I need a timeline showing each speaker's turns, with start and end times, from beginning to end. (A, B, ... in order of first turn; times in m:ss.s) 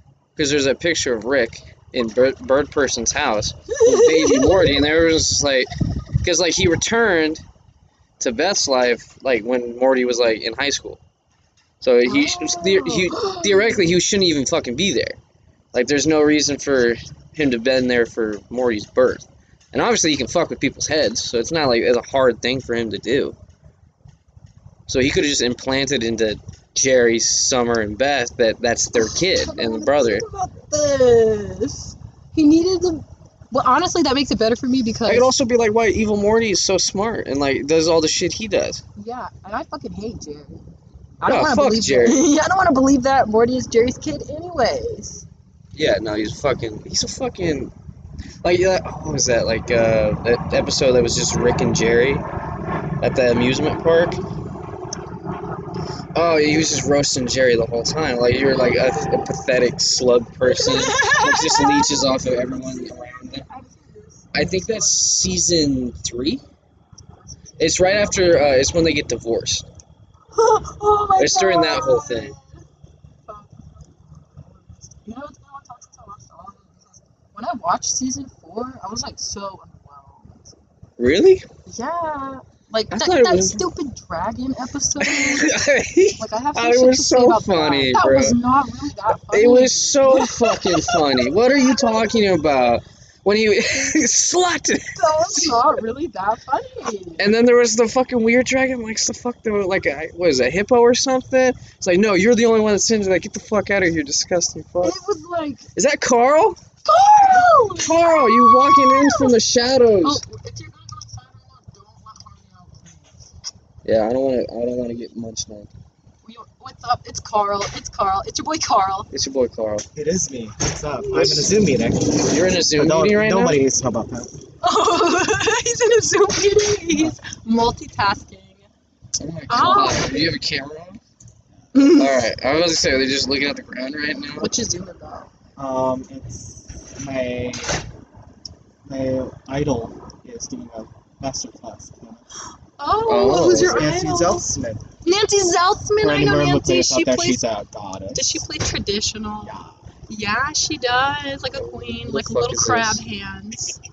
0:00.4-0:05.7 A
0:03.7-0:04.8 B
0:06.2-0:07.4 A
0:08.2-0:11.0 A
0:11.8-0:15.2 A
0:12.0-0:14.0 B
0:15.7-0:23.4 A
0:24.9-0:30.2 A
0:28.9-0:35.3 B
0:35.1-0:38.8 A
0:39.0-0:40.6 B
0:41.2-0:45.2 B
0:41.2-0:42.2 A
0:45.7-0:47.7 A
0:48.4-0:52.2 A
0:53.0-0:54.2 A
0:55.4-0:55.7 B
0:56.1-1:03.4 A
1:00.4-1:05.2 B
1:04.3-1:06.4 A
1:07.1-1:08.6 B
1:07.6-1:09.7 A
1:10.3-1:12.6 B
1:11.2-1:12.3 A
1:13.2-1:20.6 B
1:21.0-1:21.4 A
1:21.6-1:25.6 B
1:22.9-1:23.6 A
1:25.0-1:28.4 A
1:26.2-1:32.1 B
1:29.1-1:35.6 A
1:34.9-1:37.3 B
1:37.2-1:45.0 A
1:44.8-1:45.7 B
1:45.7-1:46.6 A
1:46.8-1:49.3 B
1:47.8-1:50.2 A
1:50.0-1:53.3 B
1:53.8-1:55.7 A
1:56.2-1:59.1 B
1:59.1-1:59.8 A
1:59.9-2:04.3 C
2:01.0-2:01.5 B
2:01.1-2:01.5 A
2:02.2-2:03.6 A
2:04.6-2:08.7 B
2:06.9-2:07.2 C
2:09.2-2:11.0 A
2:09.5-2:10.3 B
2:11.7-2:12.3 B
2:11.8-2:14.5 A
2:14.4-2:15.3 B
2:15.6-2:17.8 C
2:18.8-2:22.2 C
2:22.8-2:24.5 B
2:23.0-2:23.9 A
2:23.4-2:24.8 C
2:25.0-2:27.4 B
2:26.0-2:28.4 C
2:28.1-2:29.6 B
2:29.4-2:29.7 C
2:30.1-2:33.8 B
2:31.5-2:33.0 A